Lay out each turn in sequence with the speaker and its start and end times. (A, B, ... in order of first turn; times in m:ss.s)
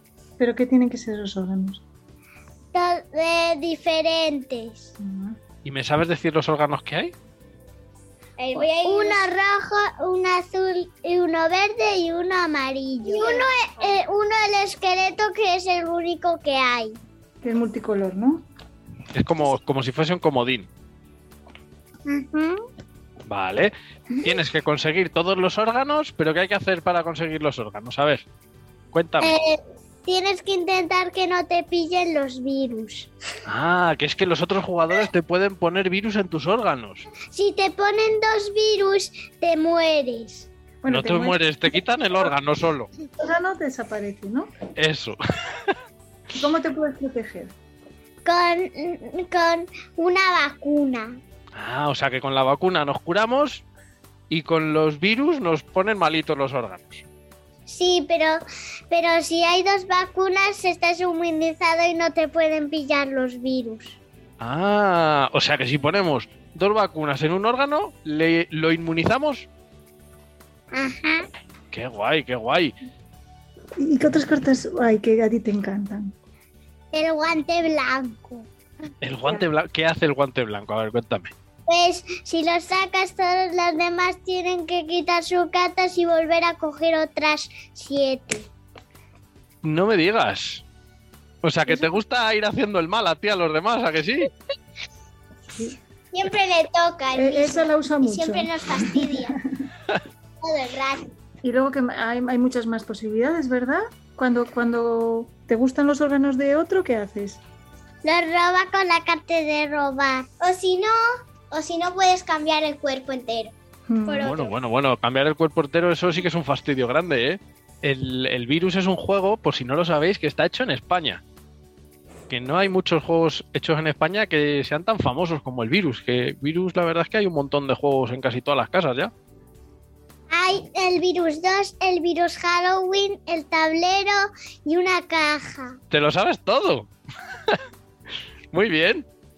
0:00.4-0:01.8 A
0:02.7-0:04.9 B
0:05.0-0:05.4 A
0:05.6-0:07.1 C
0:08.4-0:17.0 B
0:17.4-0:18.4 A
0:19.1-0:20.7 C
0:22.0-0:22.6 B
0:23.3-0:28.2 C
0:28.9-0:29.3 C
0:29.2-0:33.1 B
0:33.4-0:37.0 C
0:37.3-0:40.5 B
0:40.8-0:41.4 A
0:40.9-0:42.9 C
0:43.2-0:44.5 A
0:44.8-0:45.7 C
0:46.4-0:47.5 A
0:48.2-0:51.2 B
0:51.5-0:53.6 C
0:54.3-0:57.0 C
0:57.7-1:04.0 B
1:04.4-1:09.5 C
1:10.7-1:11.2 B
1:11.7-1:12.8 C
1:13.8-1:16.1 A
1:16.9-1:18.5 B
1:19.0-1:21.3 C
1:21.7-1:28.5 B
1:29.6-1:30.6 C
1:31.4-1:34.3 C
1:31.7-1:31.9 A
1:36.1-1:39.4 B
1:37.1-1:39.4 A
1:40.4-1:41.1 B
1:41.4-1:47.4 A
1:48.0-1:53.5 B
1:53.9-1:54.3 A
1:54.0-1:54.5 B
1:54.1-2:01.2 C
2:02.3-2:09.1 C
2:10.3-2:15.8 B
2:15.9-2:16.9 C
2:18.5-2:19.0 C